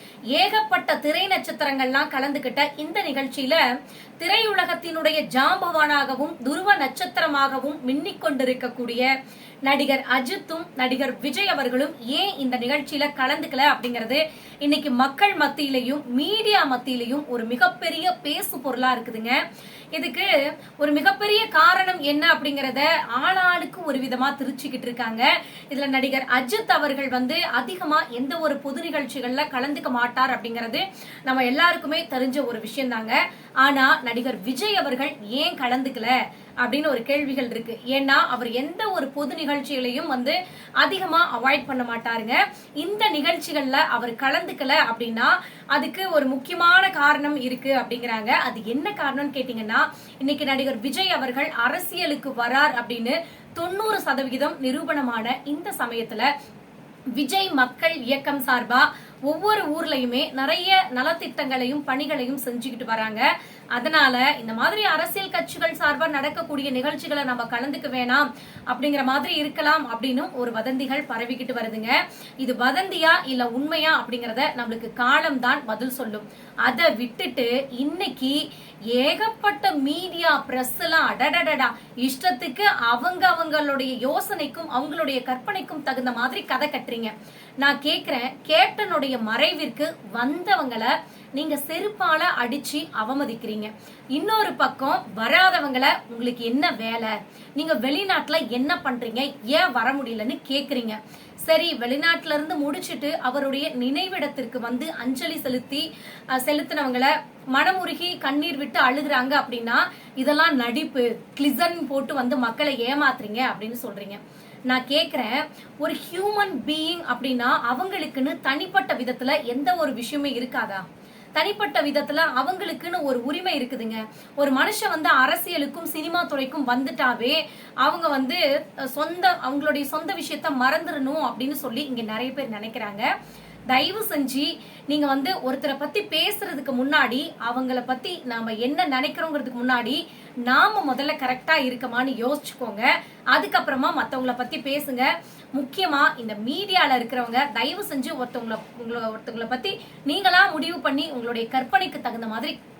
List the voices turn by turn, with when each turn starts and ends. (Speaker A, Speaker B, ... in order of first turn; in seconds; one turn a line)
Speaker A: 0.3-3.6
Speaker A: 4.2-9.1
Speaker A: 9.7-19.4
Speaker A: 19.9-56.3
Speaker A: 57.1-133.1
Speaker A: 133.7-152.6